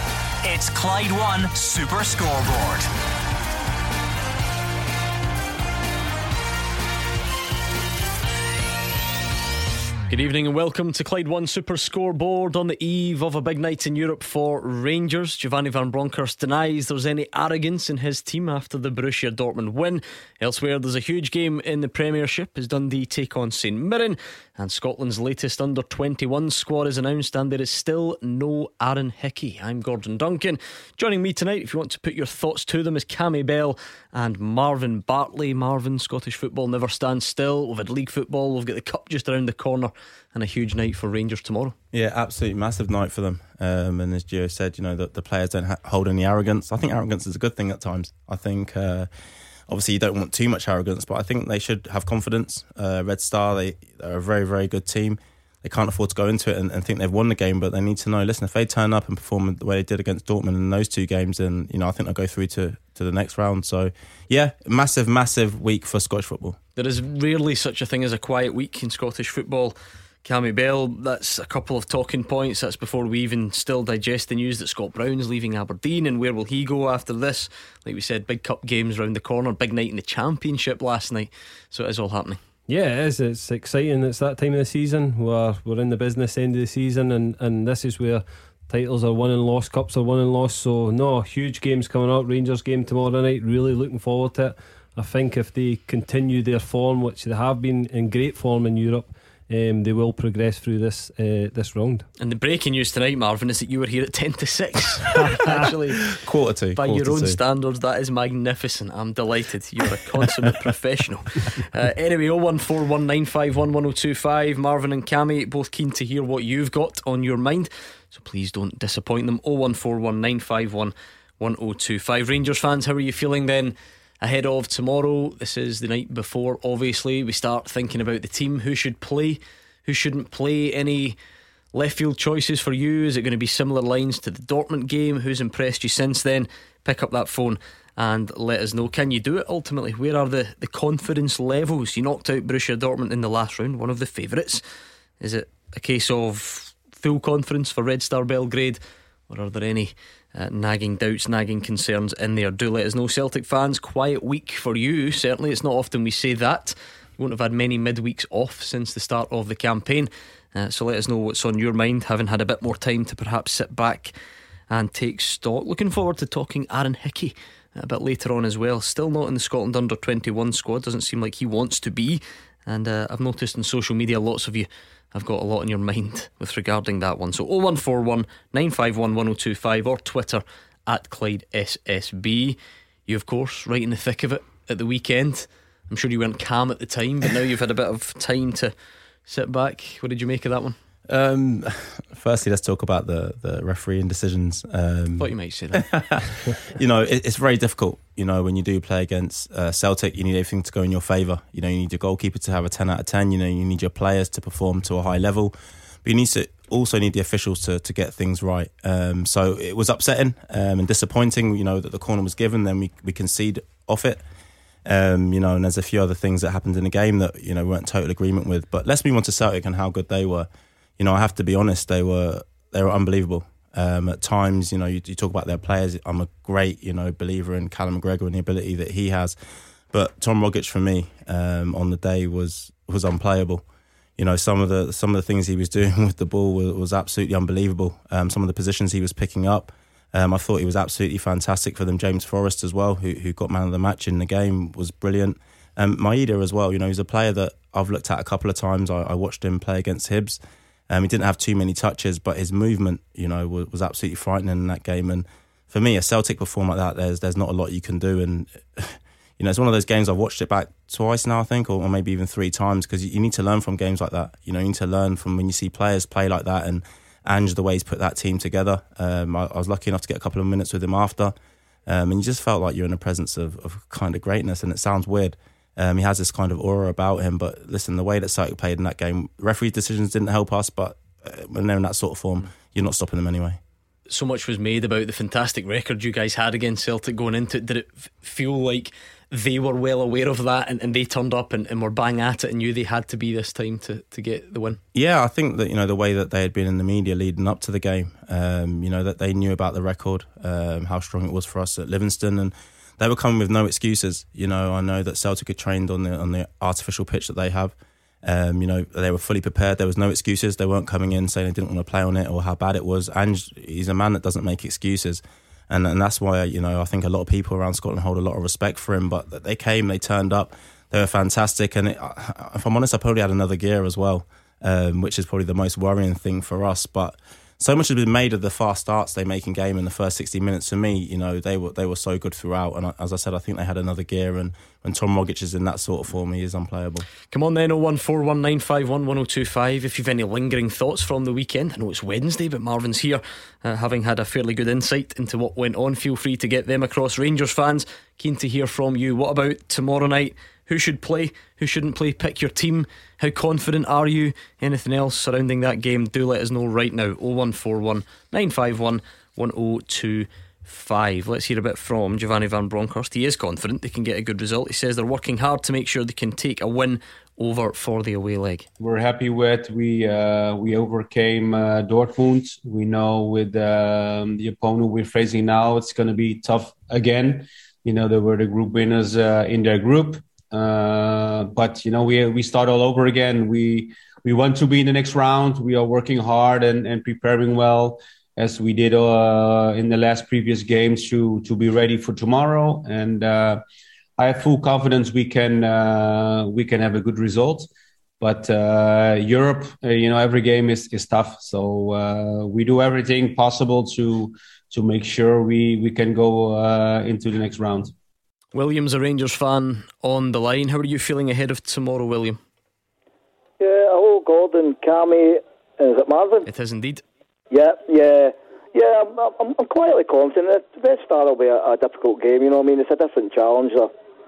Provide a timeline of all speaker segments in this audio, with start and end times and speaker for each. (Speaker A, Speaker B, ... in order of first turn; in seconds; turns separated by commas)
Speaker A: 0.4-2.9, Speaker B: 10.1-41.8, Speaker C: 41.9-49.1, Speaker C: 49.7-66.6, Speaker B: 66.8-82.4, Speaker D: 82.7-102.0, Speaker B: 102.2-106.1, Speaker C: 106.2-107.4, Speaker B: 106.8-131.2, Speaker B: 131.7-144.6, Speaker B: 145.2-164.1, Speaker B: 164.7-188.7, Speaker B: 189.3-190.8, Speaker C: 191.1-214.2, Speaker B: 195.2-195.9, Speaker C: 214.8-229.4, Speaker C: 229.9-233.6, Speaker C: 234.2-271.4, Speaker C: 271.9-283.6, Speaker B: 284.1-294.8, Speaker C: 294.9-337.1, Speaker B: 337.3-368.7, Speaker E: 368.8-393.6, Speaker E: 394.2-397.7, Speaker E: 398.2-407.9, Speaker B: 408.5-412.4, Speaker F: 413.6-416.5, Speaker B: 416.5-417.0, Speaker F: 417.5-423.9